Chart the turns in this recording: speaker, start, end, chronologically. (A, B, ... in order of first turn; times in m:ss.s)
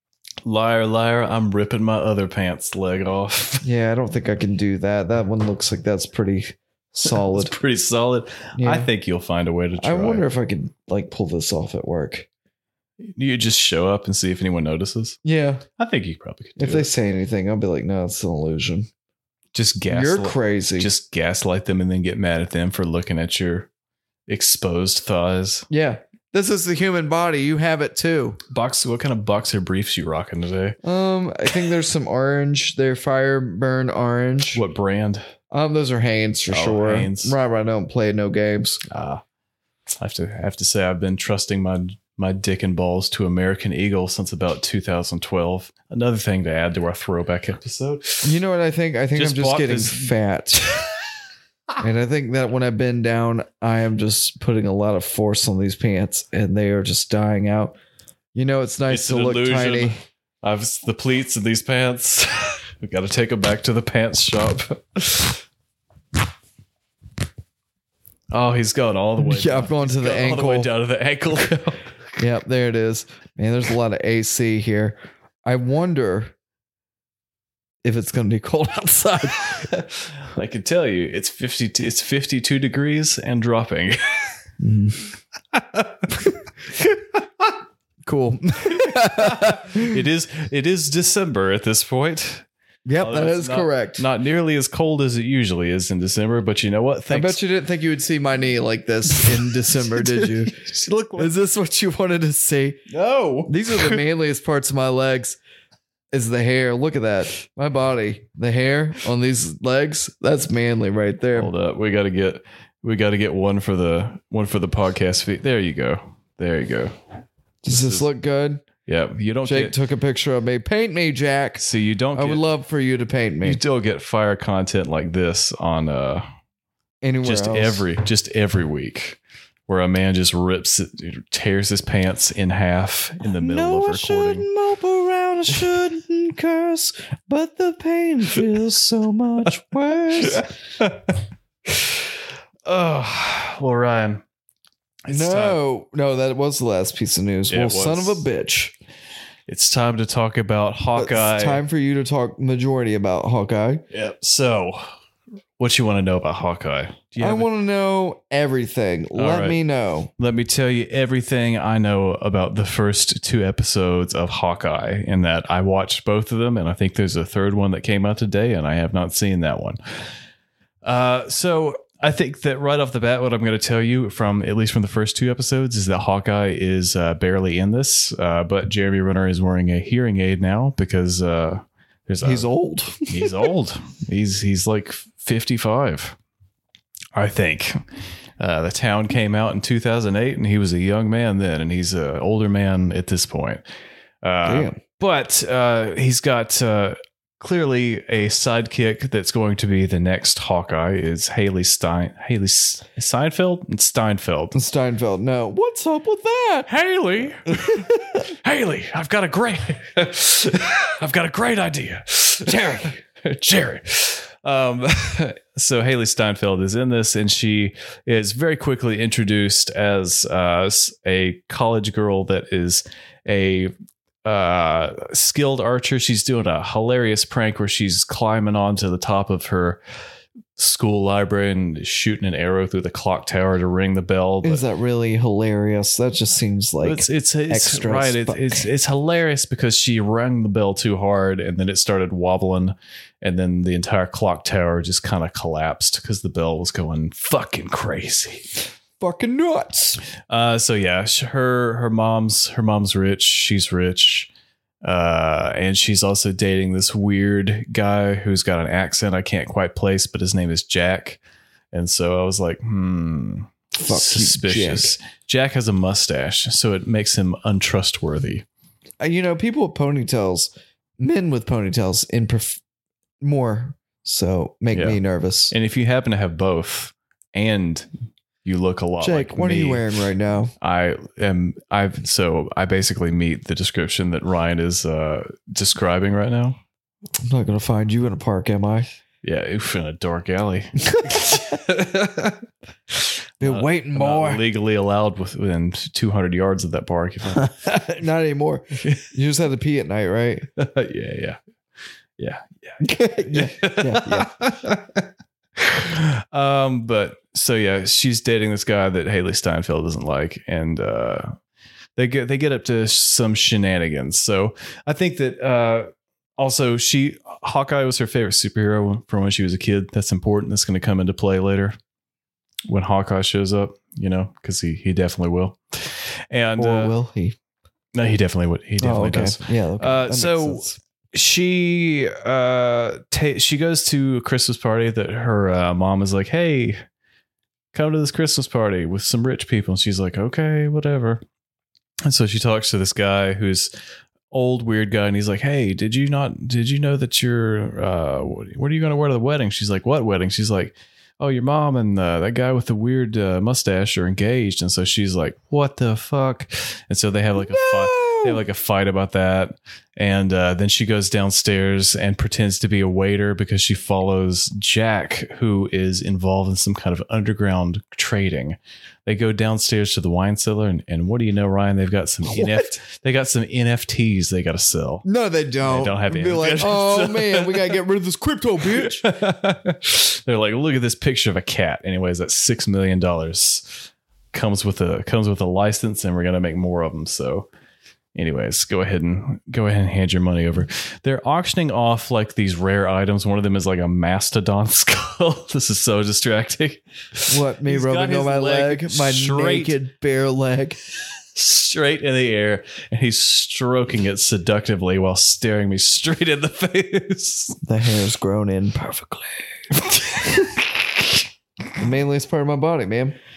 0:00.4-0:03.6 A
0:03.6-0:07.6 B
0:07.0-0:10.2 A
0:08.6-0:08.9 B
0:09.8-0:12.3 B
0:13.0-0:15.2 A
0:15.2-0:15.6 B
0:15.8-0:16.9 A
0:16.6-0:18.9 B
0:19.5-0:23.7 A
0:19.9-0:20.9 B
0:24.3-0:25.7 A
0:25.7-0:28.4 B
0:28.5-0:30.8 A
0:30.8-0:34.6 B
0:34.5-0:35.3 A
0:35.5-0:38.8 B
0:36.5-0:37.4 A
0:38.9-0:39.2 A
0:40.0-0:48.3 A
0:48.2-0:50.6 B
0:49.1-0:50.1 A
0:51.8-0:57.8 B
0:58.3-1:00.0 B
0:58.9-1:05.4 A
1:08.3-1:11.8 A
1:09.2-1:10.7 B
1:12.2-1:16.3 B
1:17.8-1:19.7 B
1:19.7-1:24.4 A
1:24.6-1:25.1 B
1:25.5-1:26.1 A
1:26.8-1:27.5 A
1:28.0-1:30.0 B
1:28.8-1:32.4 A
1:32.8-1:34.0 B
1:33.0-1:37.4 A
1:37.1-1:40.5 B
1:39.2-1:41.3 A
1:41.2-1:42.8 B
1:42.9-1:44.0 A
1:43.5-1:45.4 B
1:46.1-1:51.5 B
1:51.3-1:56.9 A
1:57.6-1:58.6 B
1:57.7-1:58.0 A
1:58.8-1:59.8 A
1:59.4-2:01.6 B
2:01.6-2:02.4 A
2:02.1-2:03.6 B
2:03.4-2:06.2 A
2:07.0-2:07.8 B
2:07.2-2:14.5 A
2:13.4-2:20.4 B
2:20.2-2:21.2 A
2:22.6-2:24.2 A
2:25.0-2:25.6 A
2:25.1-2:28.7 B
2:27.5-2:28.2 A
2:29.5-2:31.6 A
2:30.9-2:33.8 B
2:33.9-2:34.8 A
2:35.6-2:37.5 A
2:37.2-2:40.1 B
2:39.1-2:39.6 A
2:40.2-2:49.8 A
2:50.8-3:02.5 A
3:02.2-3:03.5 B
3:03.1-3:06.1 A
3:07.1-3:07.8 A
3:08.4-3:13.6 A
3:14.2-3:24.6 A
3:14.4-3:14.8 B
3:24.5-3:26.7 B
3:26.7-3:43.7 A
3:27.5-3:28.2 B
3:44.2-3:49.8 A
3:50.6-3:54.6 A
3:54.4-3:58.6 B
3:56.8-4:08.6 A
4:09.0-4:10.0 B
4:10.3-4:14.3 A
4:14.8-4:21.2 A
4:21.7-4:28.4 A
4:23.8-4:24.9 B
4:29.0-4:32.6 B
4:33.2-4:35.5 B
4:34.7-4:35.0 A
4:35.5-4:37.9 A
4:38.4-4:39.8 A
4:39.0-4:40.5 B
4:40.6-4:46.6 A
4:47.2-4:48.9 B
4:49.2-4:52.4 A
4:53.4-4:54.4 B
4:53.4-4:57.9 A
4:57.4-5:00.5 B
5:00.6-5:01.4 A
5:02.2-5:05.0 A
5:02.8-5:04.3 B
5:05.6-5:11.4 A
5:12.0-5:21.8 A
5:22.7-5:27.0 A
5:26.6-5:27.4 B
5:27.9-5:36.8 A
5:28.8-5:30.8 B
5:37.7-5:41.2 A
5:42.0-5:43.7 A
5:44.3-6:15.0 A
5:57.4-5:58.4 B
6:12.2-6:12.7 B
6:15.0-6:19.1 B
6:15.6-6:17.8 A
6:18.7-6:27.5 A
6:28.1-6:39.8 A
6:37.3-6:40.8 B
6:41.3-6:47.6 A
6:47.6-6:49.5 B
6:49.8-6:50.5 A
6:51.8-6:53.2 B